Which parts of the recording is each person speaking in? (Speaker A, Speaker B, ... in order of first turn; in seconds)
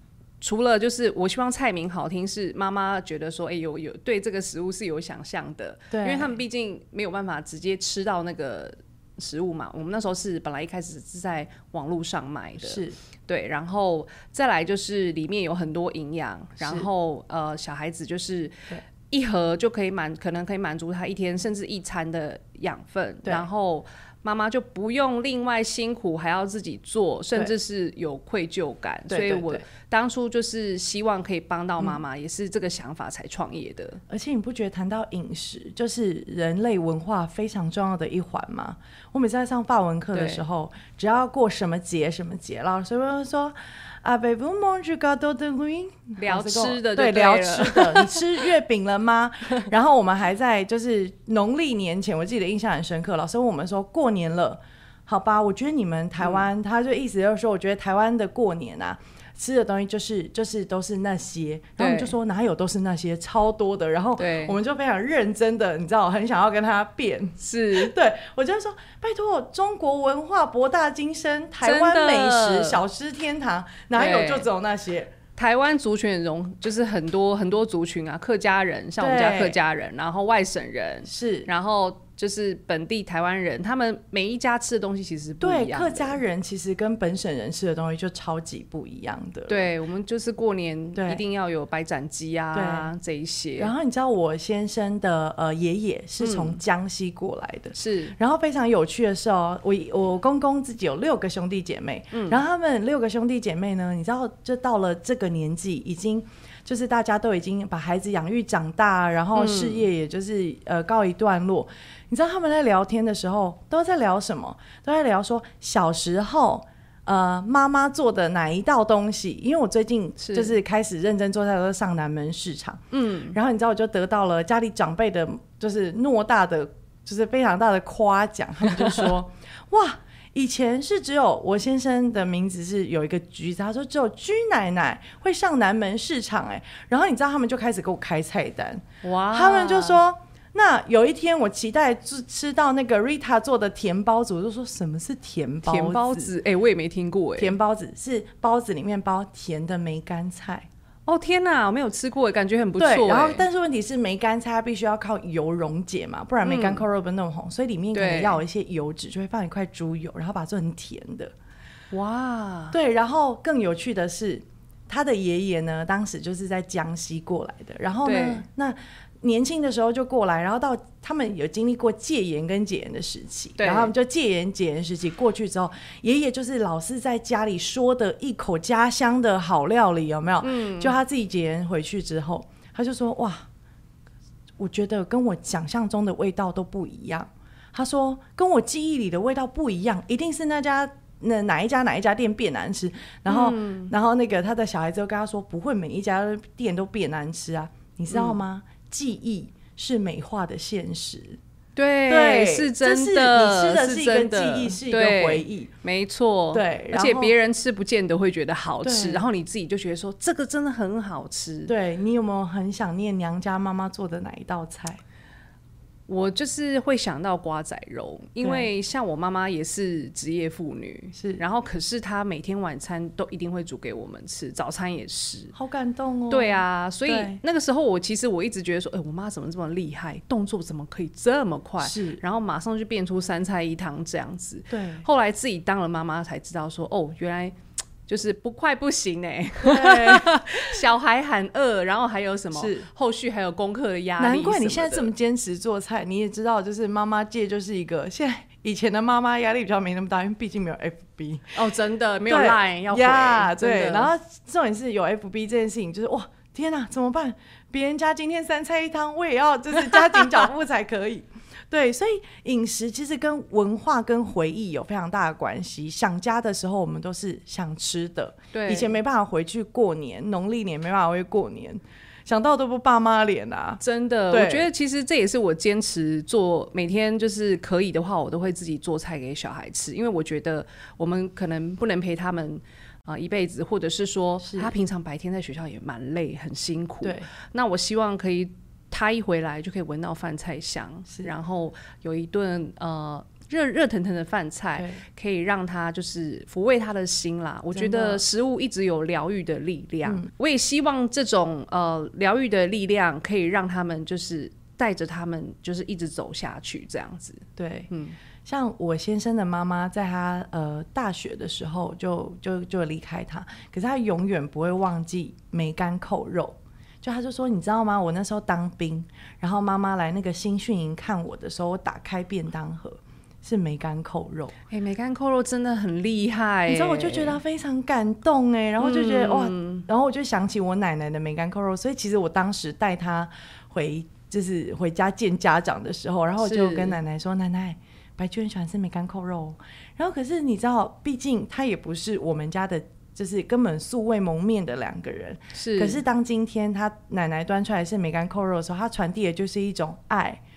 Speaker A: 0.4-18.6, 19.1-34.0, 40.1-40.4, 46.2-48.4, 61.8-62.1, 64.2-64.6, 67.4-67.9, 71.6-72.8, 73.9-74.5, 75.4-86.2, 89.5-93.7, 96.2-96.6, 97.7-98.1, 102.1-102.4, 109.3-109.8, 120.2-120.5, 122.9-123.3, 128.8-129.1, 139.0-140.0, 145.7-147.5, 151.1-153.4, 156.4-156.8, 157.9-158.4, 161.9-162.8, 168.0-168.4, 173.6-173.9, 180.4-181.0, 193.2-193.9, 198.1-198.4, 201.8-211.7, 216.1-225.5, 226.3-245.1, 251.5-254.1, 268.5-268.9, 273.8-308.2, 324.7-327.4, 328.8-329.9, 336.4-337.0, 345.5-346.0
Speaker B: 5.9-6.4, 12.6-13.0, 16.6-16.9, 29.1-29.6, 34.1-75.1, 79.0-79.6, 81.0-81.5, 85.4-89.7, 90.9-91.2, 92.5-92.9, 93.6-146.3, 147.4-150.7, 152.8-161.3, 162.7-183.4, 184.6-201.4, 202.1-205.7, 206.5-207.3, 208.8-209.2, 211.7-215.0, 218.4-218.7, 221.2-221.4, 225.5-227.4, 231.8-232.2, 234.7-235.0, 239.6-240.7, 242.5-242.9, 244.2-251.6, 252.3-274.7, 284.4-284.7, 287.0-287.3, 294.8-295.0, 297.7-298.2, 307.6-307.9, 308.4-324.5, 326.7-350.4